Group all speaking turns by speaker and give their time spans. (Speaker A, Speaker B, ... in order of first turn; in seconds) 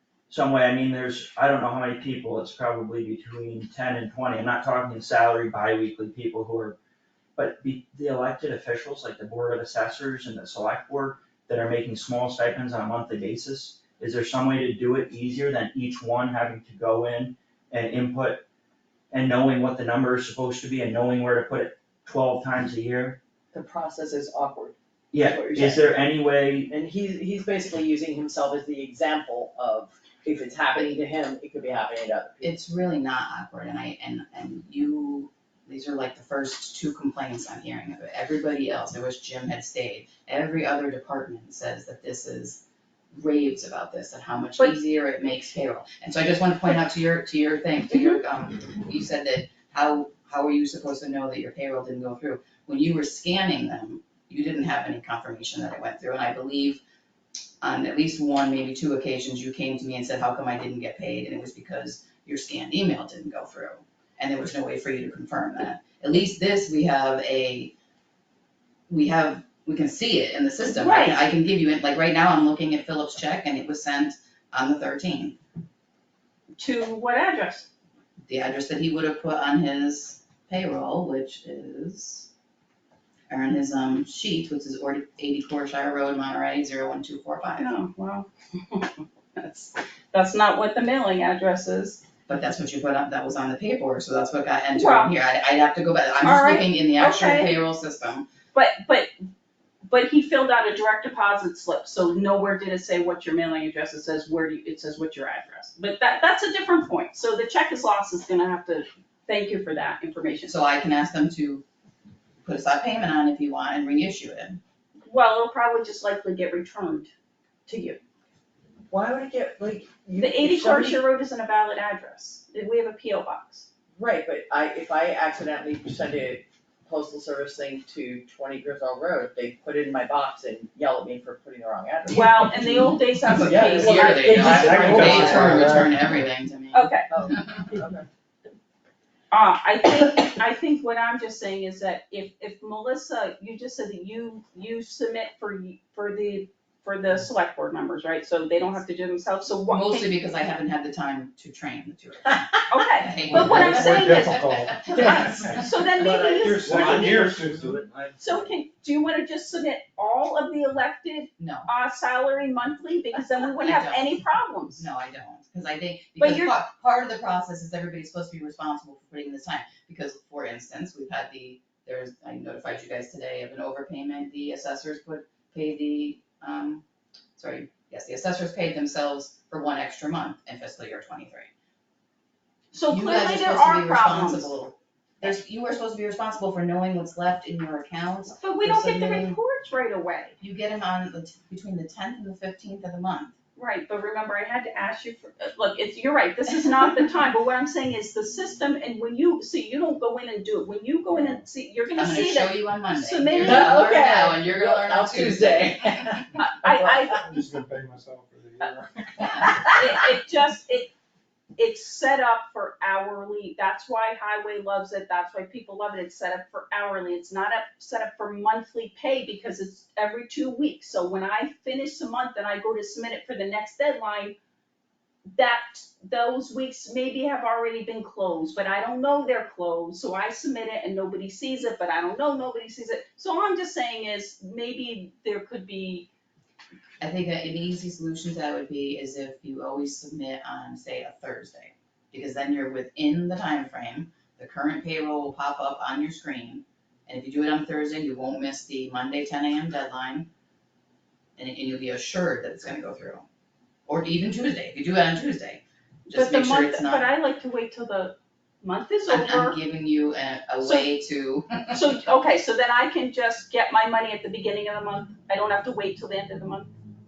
Speaker A: 0.3-6.8, 7.4-18.4, 19.1-23.2, 25.1-26.7, 134.4-135.8, 155.9-158.4
Speaker B: 23.5-25.8, 26.7-32.5, 118.9-121.0, 124.0-135.6, 137.1-138.0, 154.9-155.4, 203.4-207.1
Speaker C: 32.4-56.8, 57.6-67.7, 68.9-75.4, 78.3-82.3, 83.3-87.8, 92.3-98.3, 110.5-111.6, 112.4-114.6, 133.3-137.6, 149.7-155.2, 161.4-161.7, 163.6-164.2, 164.8-176.8, 177.3-181.5, 182.9-189.4, 190.4-193.3, 201.9-206.2, 237.0-250.3, 251.4-253.2, 253.9-255.6, 256.1-257.1, 259.1-261.8
Speaker D: 47.9-48.2, 70.7-71.2, 76.6-77.7, 87.6-92.0, 94.8-95.1, 96.2-97.6, 98.5-99.1, 99.9-110.5, 115.1-117.1, 117.7-118.0, 120.2-123.7, 132.1-135.0, 136.7-137.1, 139.3-150.1, 152.7-157.3, 158.2-164.9, 166.2-166.5, 182.7-184.5, 188.4-190.3, 193.6-203.8, 206.4-207.3, 209.7-210.9, 211.6-224.4, 225.3-236.1, 256.1-259.6, 260.6-260.9, 261.7-266.7
Speaker E: 134.4-136.2, 153.3-155.8, 156.4-157.8, 207.1-209.7